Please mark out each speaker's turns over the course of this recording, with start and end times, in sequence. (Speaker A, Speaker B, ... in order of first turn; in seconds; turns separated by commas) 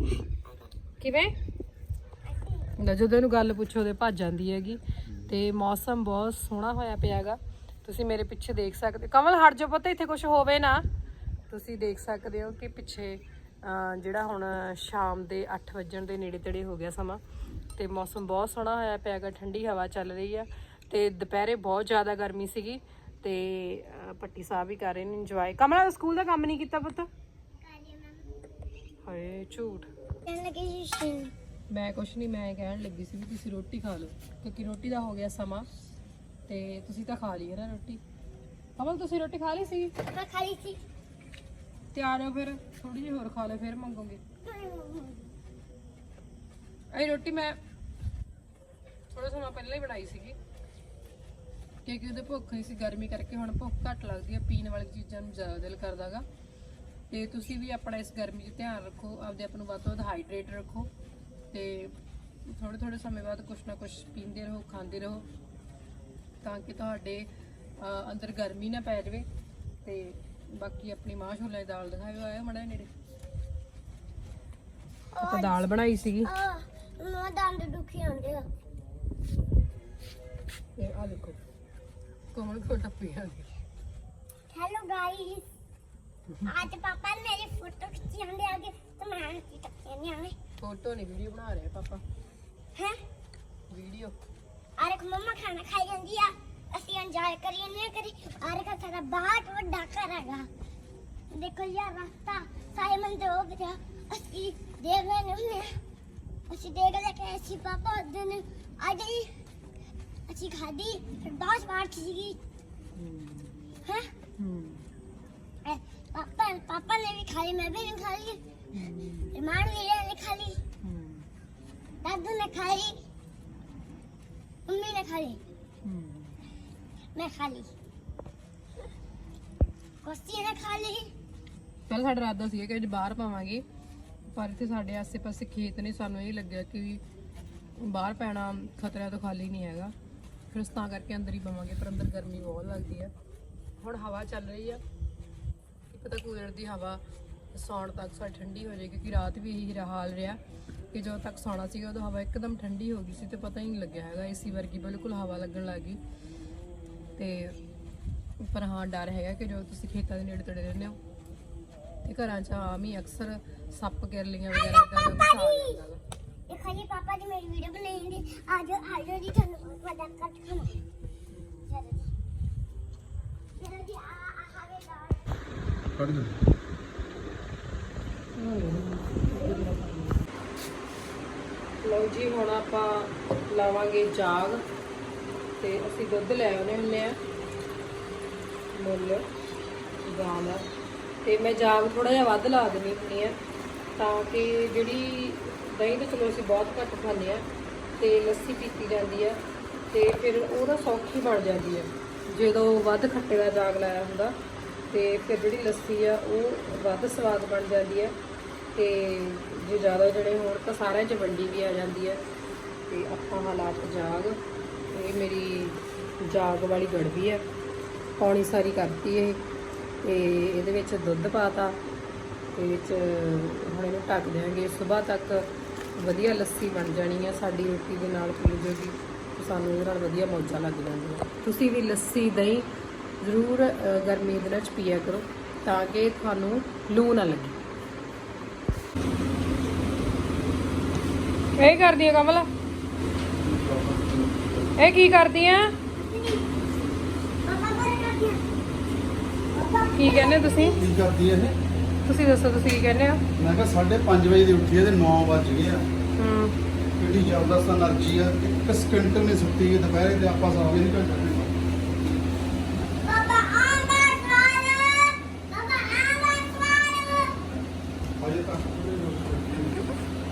Speaker A: 1.0-1.3, Speaker B: 2.3-2.7, Speaker A: 2.8-10.8, Speaker A: 11.5-17.2, Speaker A: 17.8-27.1, Speaker B: 27.6-28.3, Speaker A: 29.1-29.9, Speaker B: 30.2-31.3, Speaker A: 31.7-35.7, Speaker A: 36.5-38.0, Speaker A: 38.8-39.9, Speaker B: 40.1-40.8, Speaker A: 41.9-44.2, Speaker B: 44.4-45.3, Speaker A: 46.9-47.6, Speaker A: 49.1-50.4, Speaker A: 51.8-56.2, Speaker A: 57.1-60.9, Speaker A: 61.5-61.9, Speaker A: 62.5-65.2, Speaker A: 66.4-67.3, Speaker A: 67.8-69.2, Speaker A: 69.8-72.9, Speaker B: 75.1-75.7, Speaker A: 75.2-76.3, Speaker B: 76.2-78.5, Speaker A: 80.8-81.4, Speaker A: 82.3-83.5, Speaker B: 84.5-85.4, Speaker B: 86.4-90.3, Speaker A: 90.6-92.0, Speaker A: 93.7-94.1, Speaker B: 94.8-100.5, Speaker B: 101.3-105.8, Speaker B: 106.5-109.3, Speaker B: 110.3-112.4, Speaker A: 113.0-113.5, Speaker B: 113.8-114.1, Speaker A: 114.4-114.9, Speaker B: 115.6-118.4, Speaker A: 118.7-119.3, Speaker B: 119.3-120.6, Speaker A: 120.8-121.3, Speaker B: 122.0-123.0, Speaker B: 124.7-125.4, Speaker A: 125.8-126.4, Speaker B: 127.1-127.7, Speaker B: 130.0-131.1, Speaker A: 131.9-133.6, Speaker A: 134.3-137.0, Speaker A: 137.8-139.9, Speaker A: 140.5-143.1, Speaker A: 143.8-144.8, Speaker A: 145.9-150.4, Speaker A: 150.9-156.0, Speaker A: 157.2-157.6, Speaker A: 158.4-161.0, Speaker A: 162.1-166.0, Speaker B: 164.5-165.8, Speaker B: 166.5-170.8, Speaker A: 171.3-171.6, Speaker B: 171.7-172.1, Speaker B: 173.6-175.3, Speaker C: 175.9-176.4, Speaker A: 178.3-180.2, Speaker A: 181.8-184.6, Speaker A: 185.6-187.2, Speaker A: 188.7-189.2, Speaker A: 190.0-190.7, Speaker A: 191.2-193.4, Speaker A: 194.0-197.4, Speaker A: 198.0-199.4, Speaker A: 199.9-204.3, Speaker A: 204.9-208.2, Speaker A: 208.7-212.2, Speaker A: 212.9-217.4, Speaker A: 218.2-219.4, Speaker A: 220.0-221.8, Speaker A: 222.5-232.7, Speaker A: 233.2-237.6, Speaker A: 241.6-242.5, Speaker C: 243.3-244.8, Speaker A: 244.8-245.7, Speaker B: 245.9-246.5, Speaker B: 247.4-248.4, Speaker B: 249.5-250.9, Speaker A: 249.9-250.8, Speaker C: 250.8-251.6, Speaker A: 252.0-253.2, Speaker C: 253.3-255.9, Speaker A: 256.1-256.6, Speaker C: 257.0-261.8, Speaker B: 263.0-267.4, Speaker C: 268.2-269.9